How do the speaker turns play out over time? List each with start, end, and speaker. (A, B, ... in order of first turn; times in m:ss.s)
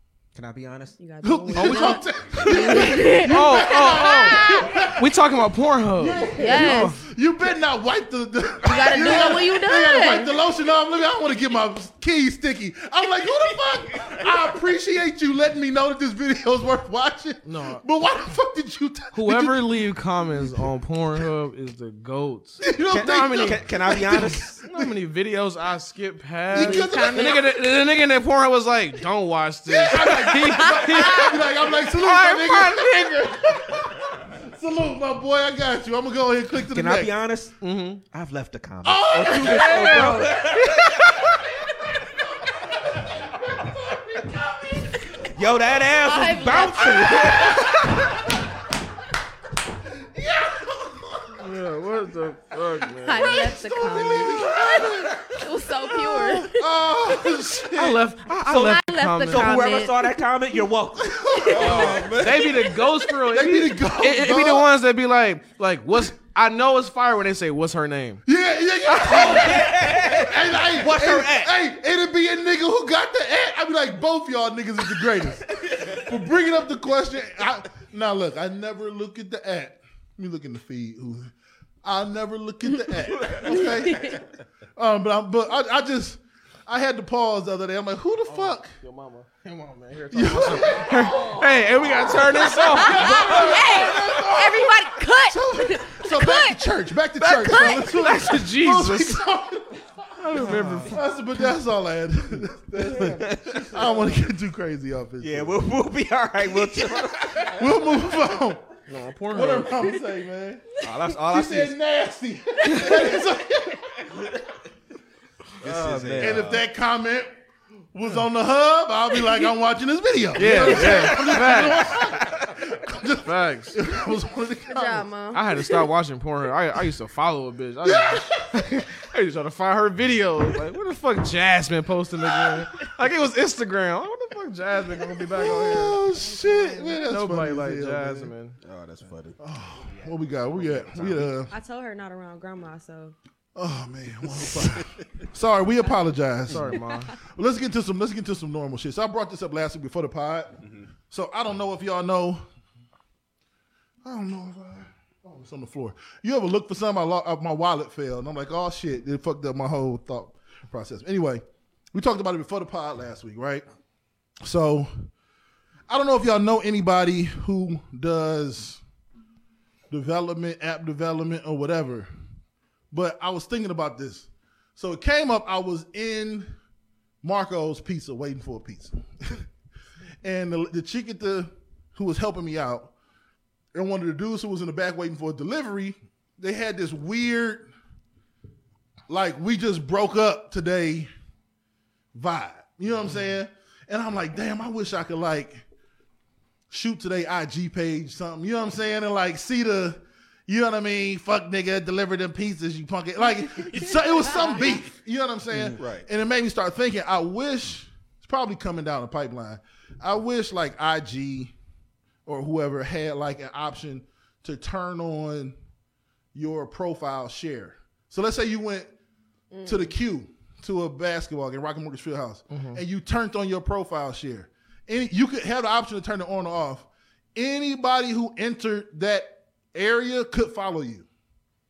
0:00.4-0:01.0 A
0:01.0-0:04.8 B
0:01.2-0:05.1 C
0:01.6-0:02.0 D
0:03.1-0:07.0 D
0:06.0-0:20.7 C
0:06.4-0:07.0 B
0:08.6-0:10.3 B
0:17.4-0:17.8 D
0:19.1-0:23.5 D
0:22.6-0:25.0 C
0:22.9-0:24.6 A
0:24.6-0:33.8 D
0:26.5-0:27.5 C
0:26.6-0:27.5 B
0:29.7-0:37.2 C
0:36.7-0:41.6 A
0:37.6-0:38.0 D
0:38.8-0:40.8 C
0:39.4-0:40.3 D
0:43.6-0:45.0 C
0:45.2-0:48.2 A
0:46.0-0:48.3 C
0:46.1-0:47.5 B
0:49.9-0:51.6 C
0:51.4-0:53.6 D
0:52.5-0:55.3 C
0:53.0-0:56.6 B
0:54.3-0:55.0 A
0:56.0-0:58.0 C
0:57.8-0:59.6 D
0:57.8-1:02.4 A
0:58.5-1:00.1 B
1:01.0-1:02.1 C
1:01.3-1:01.6 B
1:01.5-1:02.4 E
1:01.8-1:08.2 D
1:03.2-1:04.7 C
1:08.3-1:21.3 C
1:08.9-1:11.5 A
1:15.5-1:15.8 A
1:21.8-1:24.2 C
1:23.2-1:23.6 A
1:23.5-1:24.1 B
1:24.8-1:28.8 C
1:28.3-1:34.3 D
1:30.1-1:31.4 C
1:32.6-1:45.6 C
1:32.7-1:36.6 B
1:33.2-1:33.5 A
1:37.2-1:37.9 B
1:37.7-1:39.3 D
1:40.2-1:41.0 D
1:40.4-1:40.9 A
1:43.0-1:43.8 A
1:45.2-1:47.7 A
1:46.4-1:48.7 C
1:48.9-1:49.9 D
1:49.3-1:54.3 C
1:50.8-1:51.8 A
1:52.7-1:53.0 B
1:55.6-1:56.6 A
1:55.6-1:56.6 D
1:55.8-1:57.3 C
1:57.9-2:05.6 C
2:00.4-2:02.0 D
2:00.6-2:02.6 A
2:03.2-2:03.8 D
2:04.7-2:05.4 B
2:05.3-2:16.0 D
2:07.8-2:08.7 C
2:12.3-2:12.6 C
2:15.2-2:18.3 C
2:16.0-2:17.0 B
2:17.1-2:18.6 D
2:18.6-2:21.3 E
2:19.4-2:21.5 C
2:21.5-2:23.2 B
2:23.6-2:32.5 C
2:24.7-2:25.0 E
2:26.5-2:27.1 D
2:30.6-2:30.9 E
2:34.0-2:43.6 C
2:44.4-2:45.1 C
2:45.9-2:48.8 C
2:49.9-2:52.1 C
2:52.9-2:56.5 C
2:57.2-2:59.5 C
3:00.2-3:02.9 C
3:03.7-3:07.7 C
3:09.1-3:11.1 C
3:12.1-3:15.6 C
3:16.7-3:31.5 C
3:23.7-3:24.8 B
3:25.8-3:26.1 E
3:32.3-3:35.6 C
3:36.4-3:38.9 C
3:39.5-3:39.9 B
3:39.6-3:51.1 C
3:42.5-3:42.8 D